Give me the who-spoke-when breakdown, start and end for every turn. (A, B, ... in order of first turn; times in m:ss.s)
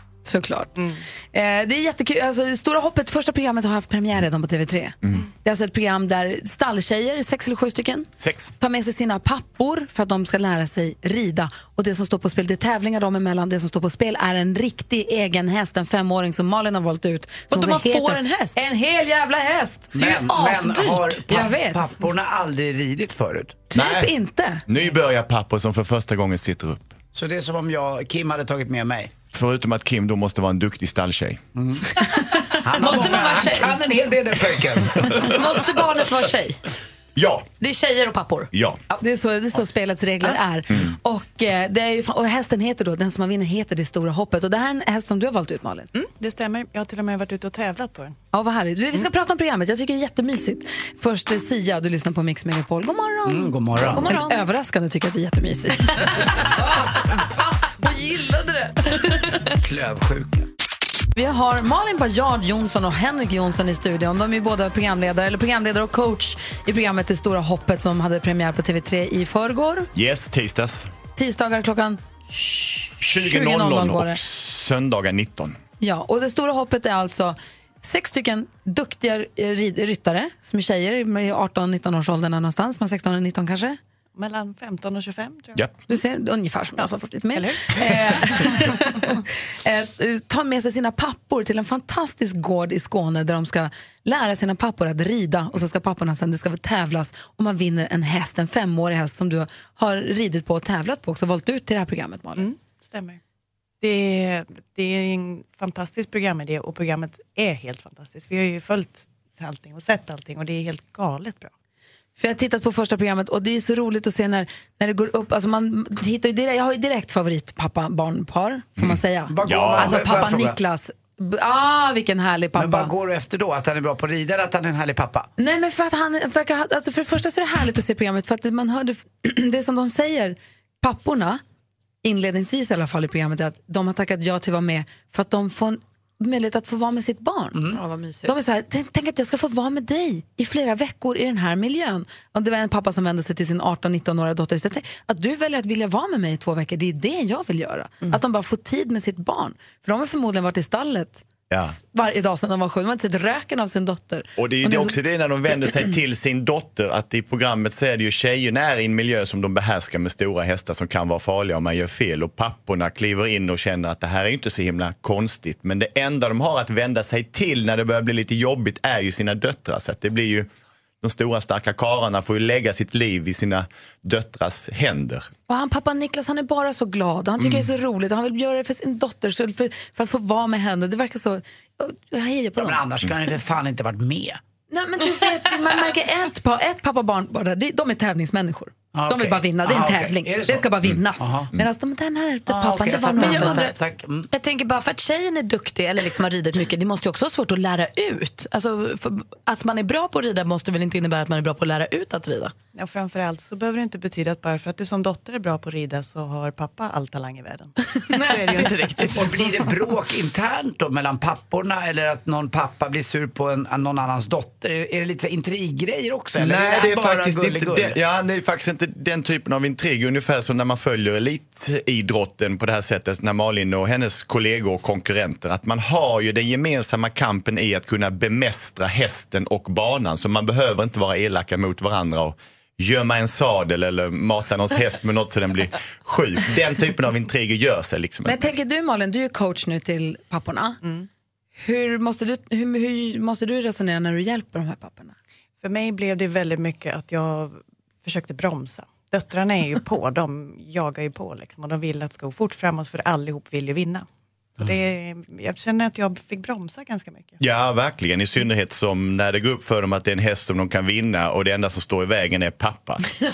0:00.2-0:00.8 A
0:00.8-0:01.0 B
0:01.3-0:22.0 A
0:08.2-0:08.5 C
0:17.5-0:18.6 D
0:19.9-0:23.6 E
0:23.7-0:24.6 A
0:23.7-0:24.1 C
0:24.7-0:26.9 C
0:27.1-0:29.1 E
0:29.3-0:31.4 C
0:31.6-0:31.8 E
0:32.6-0:35.3 E
0:32.7-0:33.8 D
0:35.2-0:36.6 D
0:37.2-0:37.5 C
0:37.6-0:38.5 D
0:38.5-0:38.8 C
0:38.9-0:45.9 A
0:46.0-0:48.1 B
0:48.3-0:59.0 A
0:53.2-0:54.1 E
0:53.9-0:54.4 D
0:59.5-1:00.5 E
1:01.1-1:09.9 A
1:09.9-1:10.9 C
1:11.2-1:14.2 A
1:13.0-1:15.6 C
1:15.8-1:23.8 A
1:24.2-1:25.6 B
1:25.9-1:42.5 A
1:26.8-1:29.1 B
1:42.4-1:43.2 B
1:43.8-1:51.5 B
1:52.2-2:02.9 A
1:58.8-2:00.1 C
1:59.3-2:00.6 E
2:02.5-2:05.3 E
2:05.4-2:11.4 A
2:12.0-2:17.7 A
2:17.7-2:18.3 D
2:18.2-2:35.0 A
2:31.5-2:31.8 C
2:34.4-2:50.5 C
2:51.0-2:55.3 C
2:55.5-3:02.8 A
3:02.6-3:04.4 E
3:04.7-3:13.7 A
3:08.9-3:11.5 E
3:12.5-3:14.3 E
3:13.0-3:13.7 D
3:14.3-3:22.5 D
3:22.7-3:29.7 B
3:28.1-3:28.6 D
3:29.1-3:38.0 E
3:36.4-3:58.4 C
3:58.2-4:00.8 A
4:01.6-4:05.1 A
4:05.6-4:14.0 B
4:14.6-4:17.4 B
4:17.4-4:23.1 C